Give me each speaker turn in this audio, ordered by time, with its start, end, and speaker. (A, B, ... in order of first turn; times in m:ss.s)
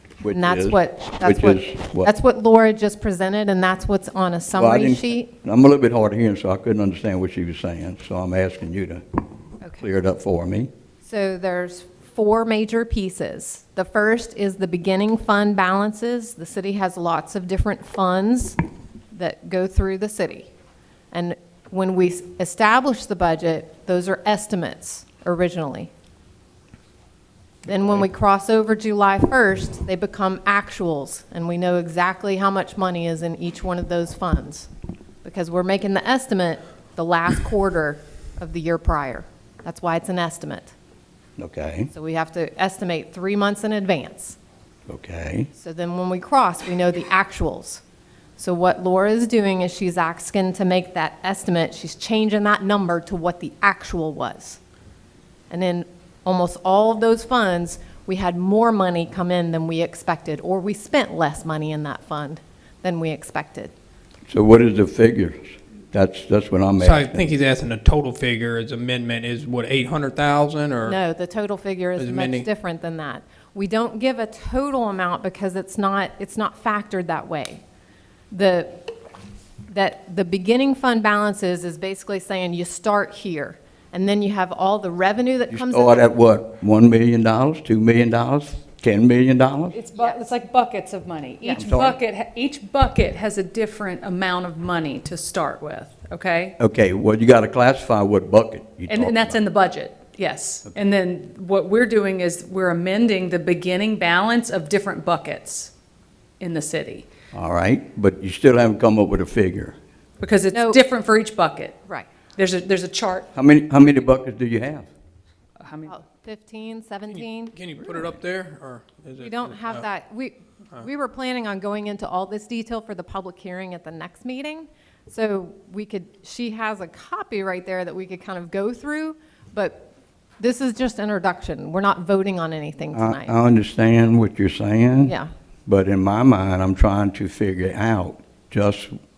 0:00.2-0:02.1 A
0:00.3-0:05.3 B
0:04.5-0:09.0 A
0:09.8-0:10.7 A
0:11.0-0:18.6 B
0:19.1-0:20.5 B
0:21.1-0:25.9 B
0:27.6-0:34.7 B
0:35.2-0:40.7 B
0:41.4-0:41.9 A
0:41.9-0:44.4 B
0:44.9-0:45.5 A
0:45.5-0:47.8 B
0:48.4-0:54.6 B
0:55.5-1:03.7 B
1:04.3-1:07.3 A
1:06.8-1:11.0 C
1:10.8-1:17.6 B
1:12.0-1:12.5 C
1:18.3-1:18.9 B
1:19.7-1:26.1 B
1:25.5-1:29.8 A
1:29.7-1:36.6 D
1:30.0-1:30.3 B
1:31.4-1:32.0 A
1:36.6-1:39.4 A
1:38.9-1:45.7 D
1:46.4-1:47.1 D
1:47.3-1:49.8 A
1:50.2-1:51.8 D
1:50.5-1:50.8 B
1:52.3-1:53.3 D
1:53.3-1:54.9 A
1:55.6-1:55.9 D
1:55.9-1:57.6 B
1:57.1-1:59.9 C
1:59.2-2:13.3 B
2:12.9-2:15.1 A
2:15.0-2:15.3 B
2:15.6-2:18.9 A